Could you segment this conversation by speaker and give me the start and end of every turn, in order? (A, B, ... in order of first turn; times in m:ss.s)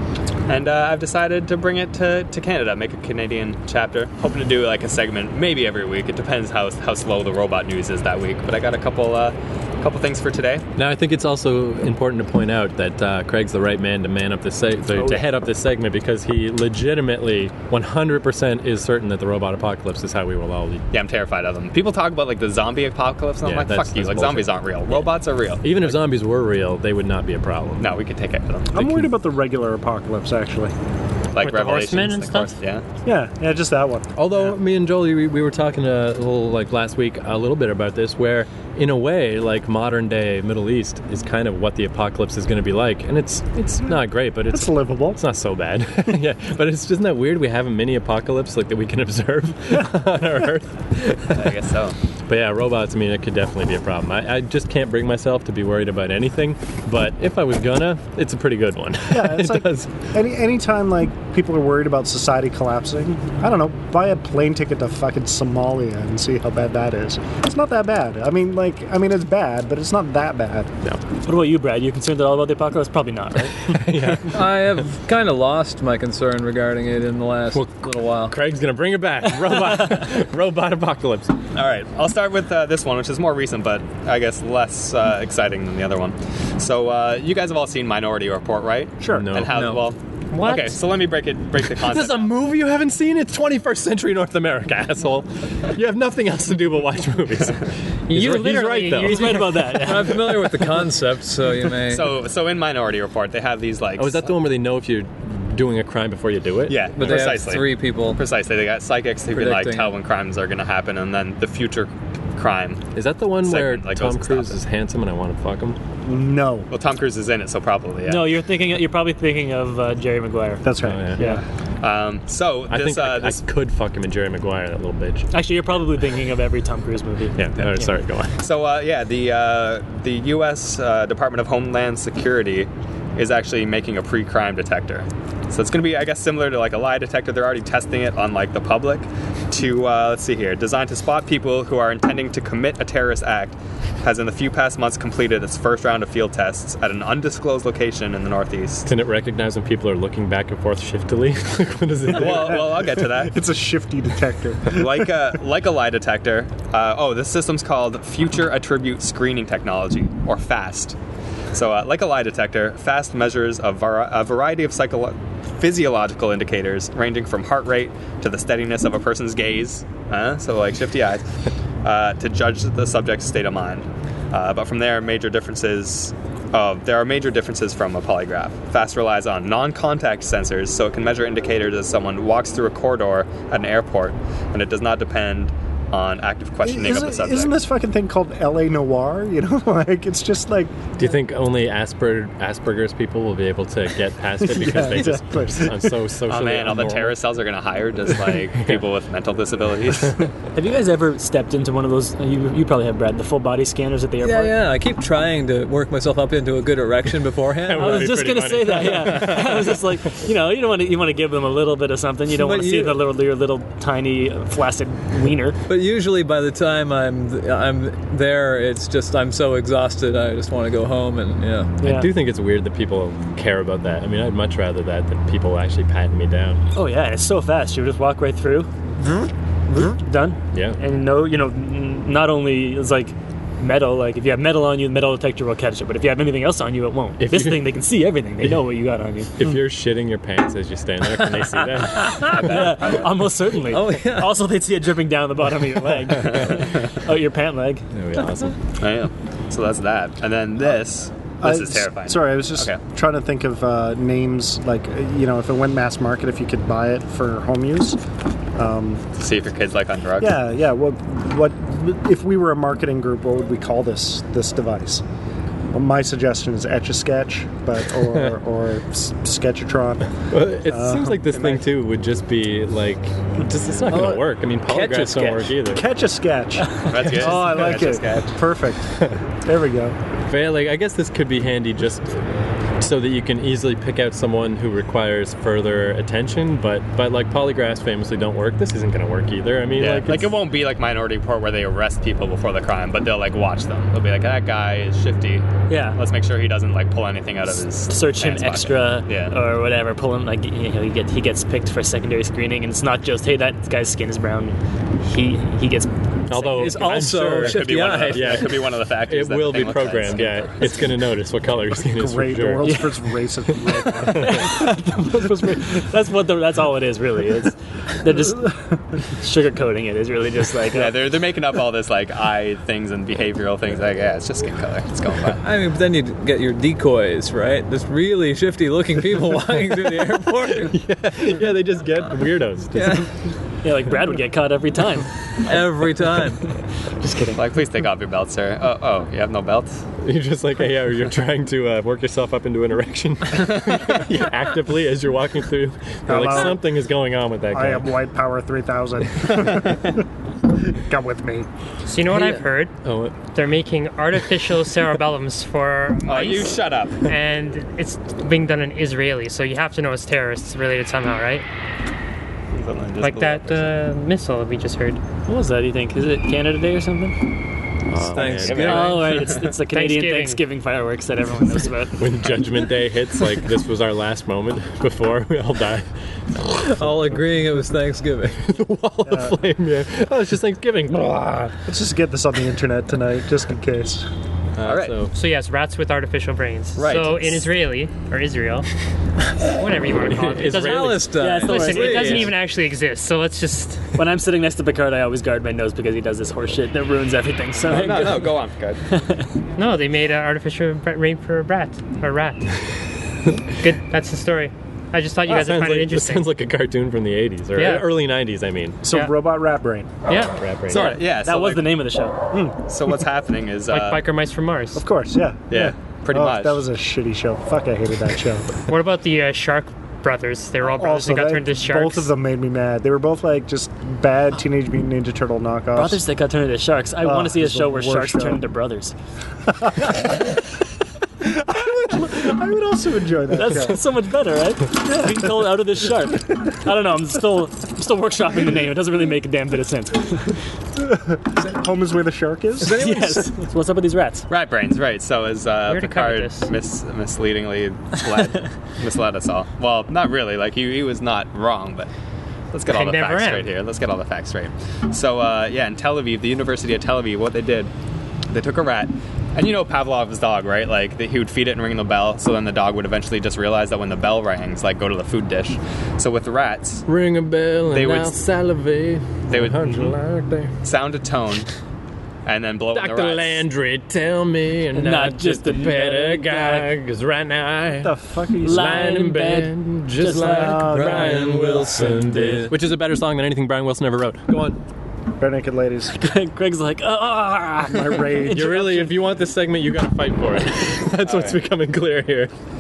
0:00.5-0:10.6 A
0:10.8-0:20.9 B
0:15.0-0:15.2 C
0:20.9-0:26.0 A
0:23.4-0:25.1 B
0:25.6-0:27.9 B
0:27.8-0:28.8 A
0:28.7-0:30.7 D
0:28.8-0:29.1 B
0:31.3-0:32.8 A
0:31.4-0:32.5 E
0:33.0-0:34.1 D
0:34.2-0:51.6 B
0:44.5-0:45.2 D
0:51.3-0:52.0 A
0:52.3-1:00.0 B
0:59.1-1:10.7 D
1:11.2-1:13.6 C
1:13.7-1:14.4 B
1:14.2-1:18.4 F
1:17.5-1:21.3 B
1:21.5-1:32.4 A
1:29.0-1:29.3 D
1:29.1-1:29.6 B
1:29.5-1:29.8 F
1:30.3-1:30.8 E
1:31.8-1:39.7 B
1:38.1-1:39.5 E
1:39.0-1:40.2 C
1:39.7-1:42.2 F
1:41.9-1:44.4 A
1:44.0-1:46.9 B
1:46.7-1:54.6 A
1:46.9-1:48.2 F
1:49.3-1:50.0 F
1:53.0-1:55.8 B
1:56.0-1:56.7 D
1:56.7-1:58.4 A
1:58.1-2:01.4 C
2:00.6-2:01.4 D
2:00.8-2:01.3 B
2:01.8-2:03.4 A
2:02.7-2:05.3 B
2:05.3-2:07.9 C
2:07.4-2:08.4 B
2:08.4-2:28.9 A
2:28.9-2:32.8 B
2:32.1-2:33.4 A
2:32.2-2:35.2 D
2:34.7-2:41.0 A
2:41.5-2:51.2 A
2:51.8-3:07.6 A
3:06.6-3:10.9 D
3:11.0-3:17.2 B
3:14.4-3:16.0 D
3:16.3-3:20.3 A
3:20.6-3:24.6 C
3:24.2-3:28.4 F
3:27.6-3:29.8 B
3:27.8-3:35.6 C
3:29.1-3:29.4 F
3:32.3-3:33.0 F
3:35.7-3:41.8 F
3:41.8-3:42.1 C
3:41.8-3:46.6 B
3:46.8-3:48.7 C
3:49.7-3:59.3 C
3:50.5-3:50.8 B
3:57.2-3:57.8 B
3:59.4-4:02.5 B
4:02.0-4:07.9 C
4:02.2-4:03.1 A
4:03.6-4:04.4 F
4:07.9-4:08.6 B
4:08.8-4:12.8 A
4:11.4-4:18.0 D
4:18.6-4:19.0 D
4:19.2-4:20.4 A
4:20.2-4:25.0 D
4:25.7-4:30.1 D
4:30.3-4:35.8 B
4:30.7-4:31.5 D
4:31.3-4:31.6 A
4:33.9-4:35.6 F
4:35.7-4:40.0 D
4:36.9-4:38.4 A
4:37.0-4:37.7 B
4:40.3-4:42.2 B
4:42.8-4:50.3 B
4:49.8-4:59.4 A
4:55.7-4:56.0 C
4:57.9-5:07.0 C
5:06.3-5:12.9 B
5:06.5-5:08.4 F
5:07.4-5:11.0 A
5:11.8-5:14.5 D
5:14.1-5:14.4 B
5:14.2-5:18.6 C
5:19.1-5:21.0 C
5:20.7-5:25.5 A
5:25.4-5:30.8 F
5:30.4-5:33.1 B
5:32.8-5:33.1 F
5:33.6-5:35.1 C
5:35.4-5:36.5 F
5:37.0-5:37.4 C
5:37.3-5:39.8 A
5:40.0-5:47.9 B
5:46.1-5:46.6 D
5:47.5-5:50.0 D
5:50.6-5:51.5 D
5:51.9-5:52.7 E
5:52.1-5:53.2 B
5:53.3-6:01.4 E
5:56.1-5:57.0 A
6:02.5-6:03.8 A
6:03.0-6:05.0 E
6:05.3-6:07.2 C
6:07.9-6:09.0 B
6:08.1-6:09.2 F
6:08.1-6:09.5 A
6:08.6-6:12.0 C
6:09.7-6:10.4 E
6:12.0-6:15.9 B
6:16.4-6:17.2 B
6:16.6-6:18.5 F
6:18.5-6:21.6 B
6:19.1-6:19.4 D
6:21.7-6:24.1 D
6:24.6-6:25.1 B
6:24.6-6:25.1 A
6:25.1-6:28.7 E
6:26.8-6:27.5 A
6:29.4-6:33.9 E
6:30.1-6:31.2 B
6:30.4-6:32.3 F
6:31.2-6:32.3 C
6:34.0-6:38.4 C
6:37.6-6:38.8 A
6:38.9-6:39.3 C
6:39.6-6:42.5 E
6:43.6-6:46.3 E
6:45.3-6:48.8 B
6:47.6-6:47.9 E
6:48.8-6:49.9 D
6:50.1-6:51.0 E
6:50.3-6:51.0 B
6:50.7-6:51.9 A
6:50.8-6:52.2 C
6:52.3-6:52.6 D
6:52.7-6:54.1 A
6:53.7-6:54.8 E
6:54.8-6:58.5 D
6:55.5-6:56.6 A
6:58.7-7:02.1 E
7:00.7-7:06.0 D
7:05.7-7:08.9 C
7:07.0-7:08.4 D
7:09.6-7:10.0 D
7:11.2-7:13.8 D
7:13.3-7:20.4 C
7:20.8-7:22.8 D
7:22.6-7:23.4 F
7:22.6-7:24.3 C
7:24.3-7:31.9 A
7:25.7-7:26.5 E
7:32.5-7:37.7 A
7:32.7-7:33.5 E
7:38.3-7:46.9 A
7:46.9-7:50.5 B
7:47.7-7:48.2 A
7:49.3-7:50.0 A
7:50.6-7:51.5 A
7:52.3-7:53.5 A
7:52.7-8:04.6 B
7:54.7-7:56.7 C
7:57.8-7:58.9 D
7:58.4-8:00.8 C
8:00.2-8:01.8 D
8:00.7-8:02.6 F
8:05.2-8:06.0 D
8:06.0-8:09.0 C
8:07.7-8:08.6 D
8:08.3-8:12.3 B
8:11.0-8:11.4 A